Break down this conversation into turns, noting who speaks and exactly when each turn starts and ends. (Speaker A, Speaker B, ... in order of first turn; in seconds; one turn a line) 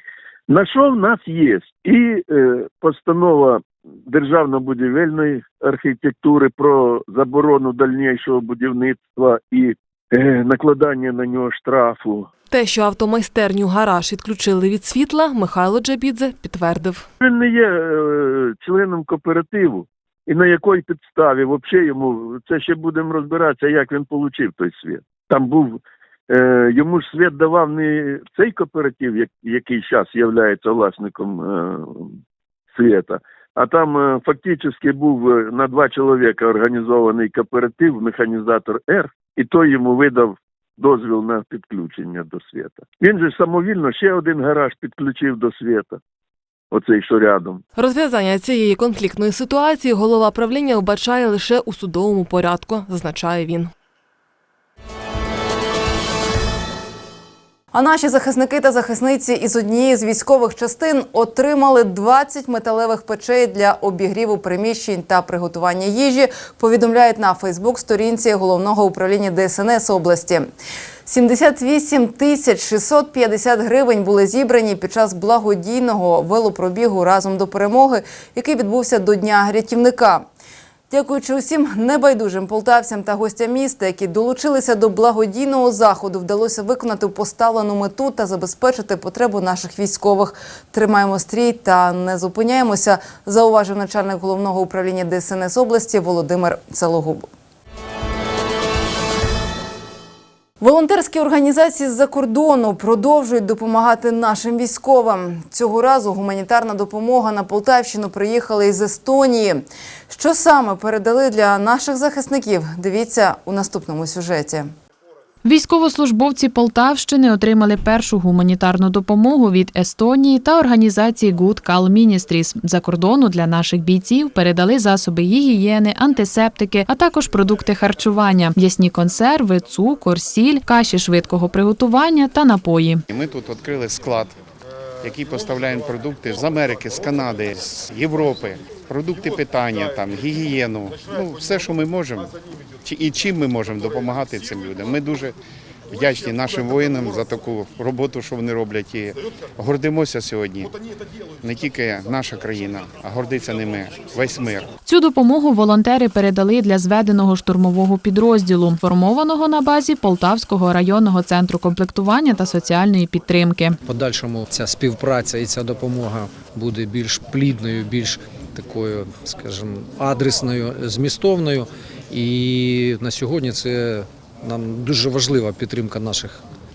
Speaker A: 0.5-12.3
Speaker B: 12.5-17.1
Speaker A: 17.2-25.8
Speaker A: 26.3-32.1
Speaker A: 32.8-46.0
Speaker A: 46.7-47.6
Speaker B: 47.8-53.7
Speaker C: 57.7-70.5
Speaker C: 71.1-80.2
Speaker C: 80.9-97.2
Speaker C: 100.6-114.7
Speaker D: 115.5-133.0
Speaker E: 133.1-134.3
Speaker E: 135.0-142.3
Speaker E: 142.8-145.3
Speaker E: 145.9-150.7
Speaker E: 151.4-154.7
Speaker D: 154.9-163.8
Speaker F: 163.9-176.4